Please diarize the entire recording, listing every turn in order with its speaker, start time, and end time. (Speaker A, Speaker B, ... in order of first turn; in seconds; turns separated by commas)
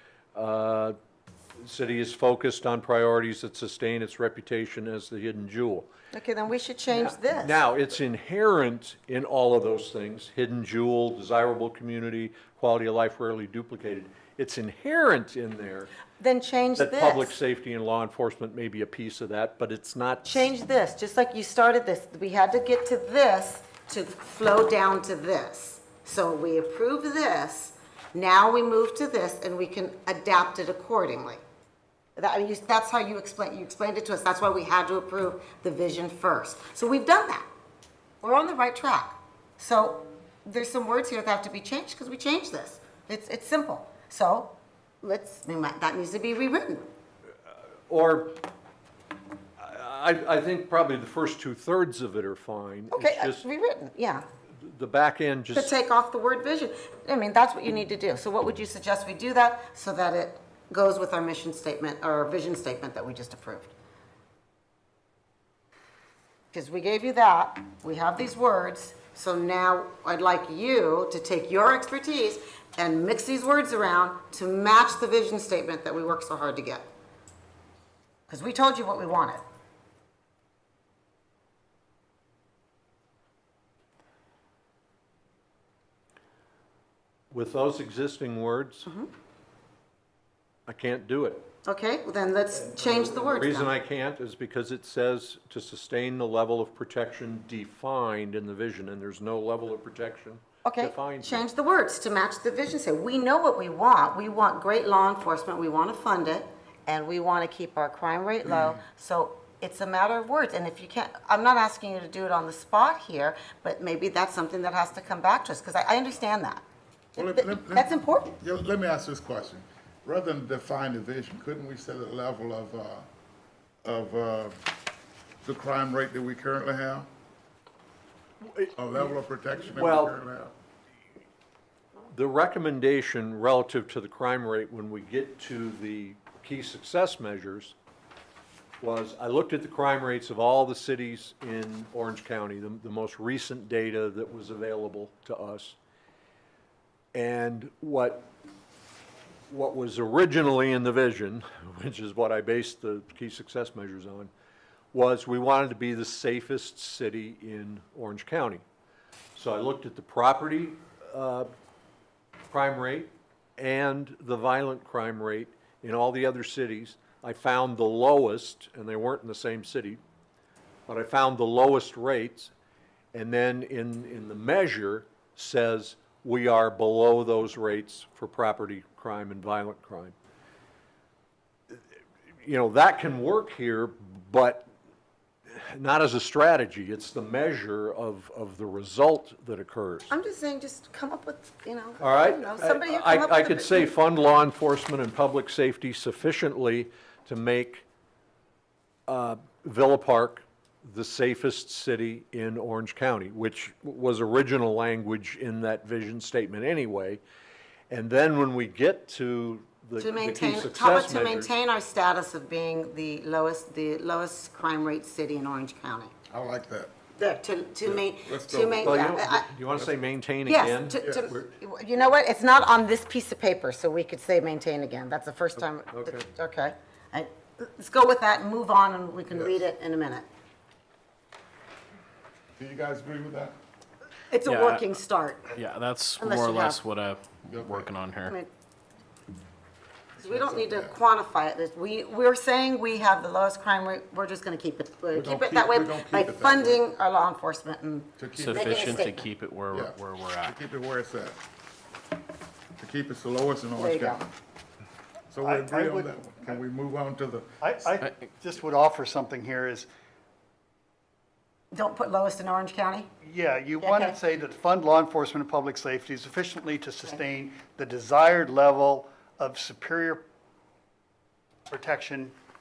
Speaker A: 0.3-0.9, Speaker A: 1.6-5.9, Speaker B: 6.1-7.6, Speaker A: 6.9-15.9, Speaker B: 16.2-17.3, Speaker A: 16.8-20.4, Speaker B: 20.2-31.4, Speaker B: 32.2-37.5, Speaker B: 38.2-46.9, Speaker A: 47.9-48.4, Speaker A: 49.6-53.4, Speaker B: 52.9-54.2, Speaker A: 54.6-55.7, Speaker B: 55.5-63.7, Speaker B: 66.5-76.8, Speaker B: 78.3-79.4, Speaker A: 87.3-88.9, Speaker B: 88.8-89.1, Speaker A: 90.7-91.5, Speaker B: 91.6-93.7, Speaker A: 92.6-101.4, Speaker B: 100.6-116.6, Speaker C: 108.4-108.7, Speaker B: 117.2-118.4, Speaker C: 117.2-123.0, Speaker C: 123.8-124.6, Speaker C: 125.4-127.1, Speaker A: 128.4-129.1, Speaker C: 128.7-130.5, Speaker A: 129.7-130.2, Speaker A: 132.1-137.8, Speaker A: 138.8-145.8, Speaker A: 147.1-148.3, Speaker A: 149.5-154.3, Speaker A: 154.9-158.6, Speaker A: 159.3-161.5, Speaker A: 162.5-170.0, Speaker A: 170.9-172.5, Speaker A: 173.1-180.1, Speaker A: 182.4-184.7, Speaker A: 185.5-190.1, Speaker B: 190.1-193.9, Speaker A: 192.0-197.8, Speaker A: 199.1-207.2, Speaker A: 207.9-211.5, Speaker B: 210.0-216.1, Speaker C: 216.3-216.9, Speaker B: 217.2-219.5, Speaker C: 217.8-219.2, Speaker A: 218.8-221.5, Speaker B: 220.4-230.2, Speaker A: 225.9-226.3, Speaker C: 229.3-229.6, Speaker C: 232.6-233.5, Speaker B: 234.3-235.6, Speaker D: 234.4-234.8, Speaker D: 235.5-238.4, Speaker B: 236.2-236.8, Speaker C: 237.5-237.9, Speaker B: 240.2-249.3, Speaker C: 240.2-240.9, Speaker C: 245.1-246.8, Speaker C: 248.2-249.0, Speaker D: 248.3-250.6, Speaker C: 249.7-251.4, Speaker C: 252.8-254.3, Speaker B: 253.8-254.2, Speaker C: 255.3-257.6, Speaker E: 255.4-256.6, Speaker E: 257.6-259.9, Speaker B: 261.7-263.1, Speaker E: 263.2-270.2, Speaker B: 263.8-264.1, Speaker E: 271.7-272.3